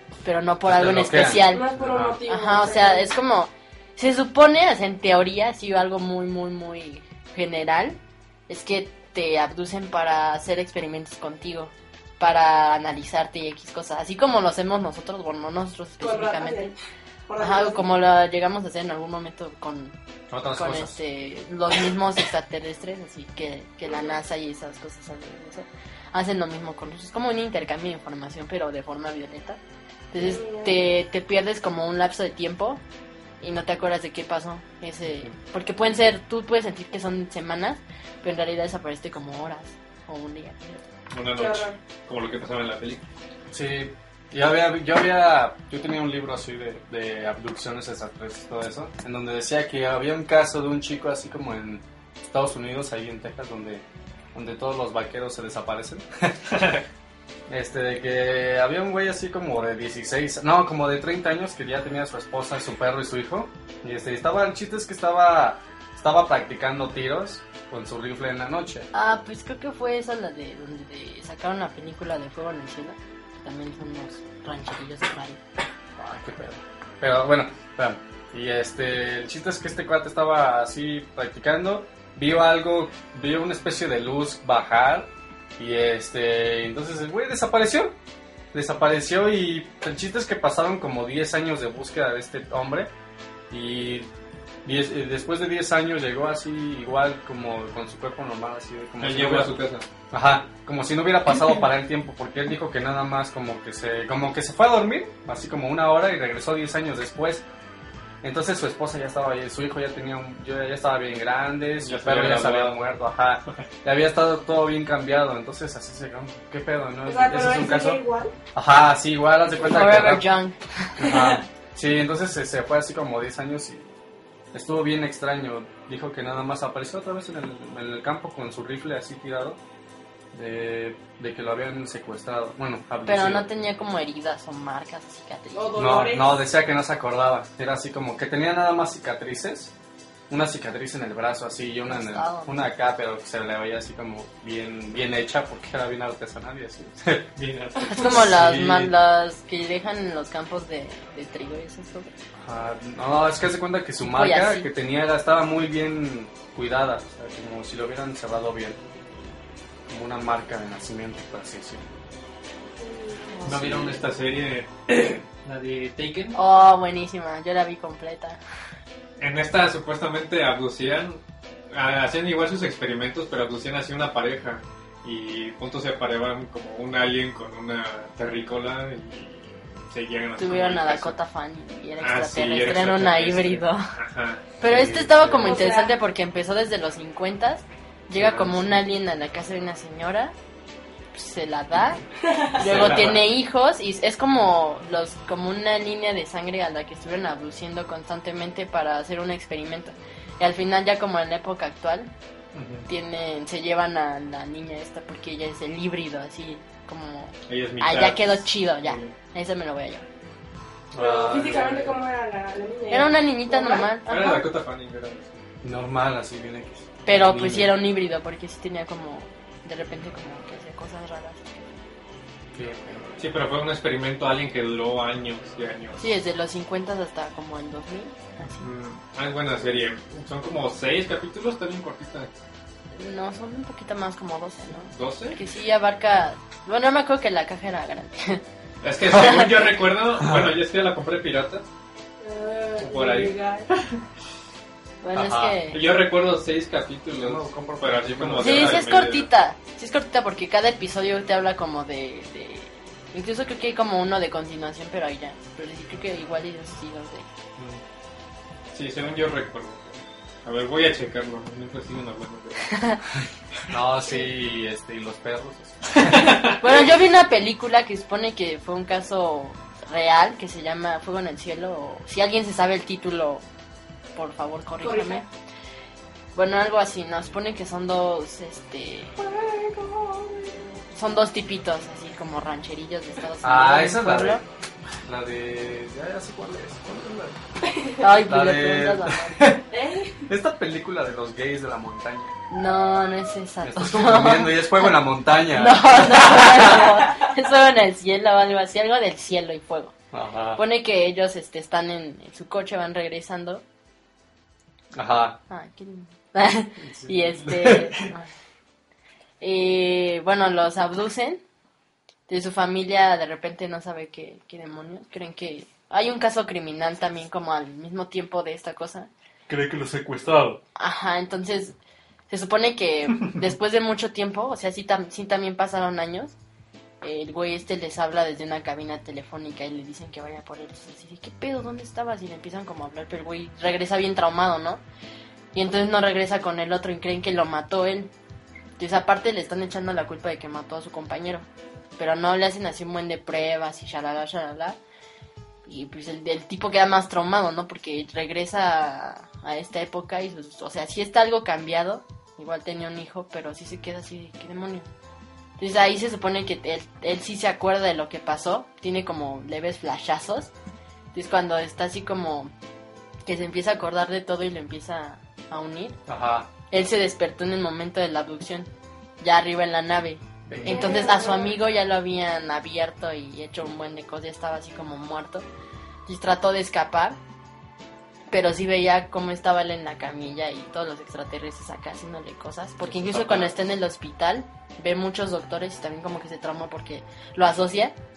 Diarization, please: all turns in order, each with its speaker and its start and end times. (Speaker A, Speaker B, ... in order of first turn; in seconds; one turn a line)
Speaker A: 0.2-1.7
Speaker B: 0.7-2.2
Speaker C: 1.5-3.1
Speaker A: 2.2-16.7
Speaker C: 16.0-16.8
Speaker C: 17.3-17.9
Speaker A: 17.4-20.0
Speaker B: 20.3-21.0
Speaker A: 20.5-29.6
Speaker A: 30.1-32.8
Speaker C: 30.2-30.8
Speaker A: 33.4-40.8
Speaker D: 41.1-43.0
Speaker C: 41.3-41.8
Speaker B: 43.5-56.5
Speaker B: 57.5-68.9
Speaker A: 68.9-75.4
Speaker B: 76.0-88.0
Speaker B: 88.5-92.9
Speaker B: 93.5-94.1
Speaker B: 94.7-99.5
Speaker D: 99.0-99.9
Speaker B: 100.1-107.4
Speaker B: 108.2-118.0
Speaker D: 111.8-112.8
Speaker C: 117.1-118.3
Speaker B: 118.5-120.3
Speaker A: 119.6-121.4
Speaker B: 121.0-123.9
Speaker B: 124.5-129.6
Speaker B: 130.3-133.4
Speaker A: 133.1-135.9
Speaker C: 135.5-136.3
Speaker B: 135.8-139.7
Speaker B: 140.3-147.3
Speaker A: 141.9-142.5
Speaker D: 147.4-148.1
Speaker A: 147.9-152.1
Speaker B: 148.0-148.9
Speaker B: 152.4-158.8
Speaker A: 154.0-154.7
Speaker B: 159.9-161.9
Speaker C: 162.8-163.4
Speaker D: 163.4-166.4
Speaker B: 163.5-164.0
Speaker A: 166.3-168.4
Speaker D: 169.2-181.2
Speaker A: 180.4-183.9
Speaker D: 182.0-184.5
Speaker A: 184.6-190.3
Speaker B: 184.7-185.7
Speaker C: 185.4-185.9
Speaker D: 188.2-188.8
Speaker A: 191.1-192.0
Speaker C: 192.3-192.6
Speaker A: 192.5-202.1
Speaker D: 192.6-193.2
Speaker D: 202.5-202.9
Speaker A: 202.9-210.1
Speaker D: 207.5-209.2
Speaker B: 210.9-212.0
Speaker C: 211.0-213.9
Speaker A: 212.9-214.5
Speaker D: 214.1-215.3
Speaker B: 215.6-217.8
Speaker A: 217.1-221.7
Speaker B: 222.5-223.2
Speaker D: 223.2-226.0
Speaker A: 226.0-228.7
Speaker D: 228.6-232.3
Speaker A: 232.9-238.4
Speaker D: 234.9-235.4
Speaker D: 238.8-241.7
Speaker A: 239.1-239.5
Speaker B: 239.1-239.5
Speaker B: 240.2-240.6
Speaker C: 242.2-243.7
Speaker D: 242.8-244.0
Speaker A: 245.0-245.8
Speaker B: 245.1-245.6
Speaker D: 245.7-249.3
Speaker B: 247.1-248.9
Speaker A: 248.4-257.3
Speaker D: 257.6-257.8
Speaker D: 258.7-262.8
Speaker A: 262.7-263.0
Speaker B: 263.7-266.3
Speaker D: 266.1-266.6
Speaker A: 266.6-273.4
Speaker A: 274.2-275.3
Speaker C: 274.8-275.3
Speaker A: 276.4-279.2
Speaker A: 280.9-284.4
Speaker B: 283.4-284.4
Speaker B: 285.0-287.4
Speaker A: 288.0-289.4
Speaker B: 288.3-289.6
Speaker C: 289.7-290.3
Speaker B: 290.3-292.3
Speaker A: 292.5-294.9
Speaker B: 293.6-296.9
Speaker A: 295.5-299.9
Speaker B: 300.1-300.6
Speaker A: 300.6-303.6
Speaker B: 304.9-305.4
Speaker A: 305.5-308.3
Speaker B: 306.8-308.0
Speaker A: 309.4-311.4
Speaker A: 312.3-319.1
Speaker B: 319.5-320.6
Speaker A: 320.8-321.8
Speaker A: 322.3-326.3
Speaker A: 327.0-334.8
Speaker A: 335.5-338.1
Speaker A: 338.8-341.5
Speaker A: 342.0-344.8
Speaker A: 345.6-354.9
Speaker A: 355.6-360.5
Speaker A: 361.1-362.5
Speaker A: 363.2-366.0
Speaker B: 366.1-366.5
Speaker A: 366.7-368.7
Speaker A: 369.2-375.5
Speaker B: 370.5-371.1
Speaker C: 370.6-371.6
Speaker A: 376.1-377.2
Speaker A: 378.3-387.9
Speaker B: 382.9-383.5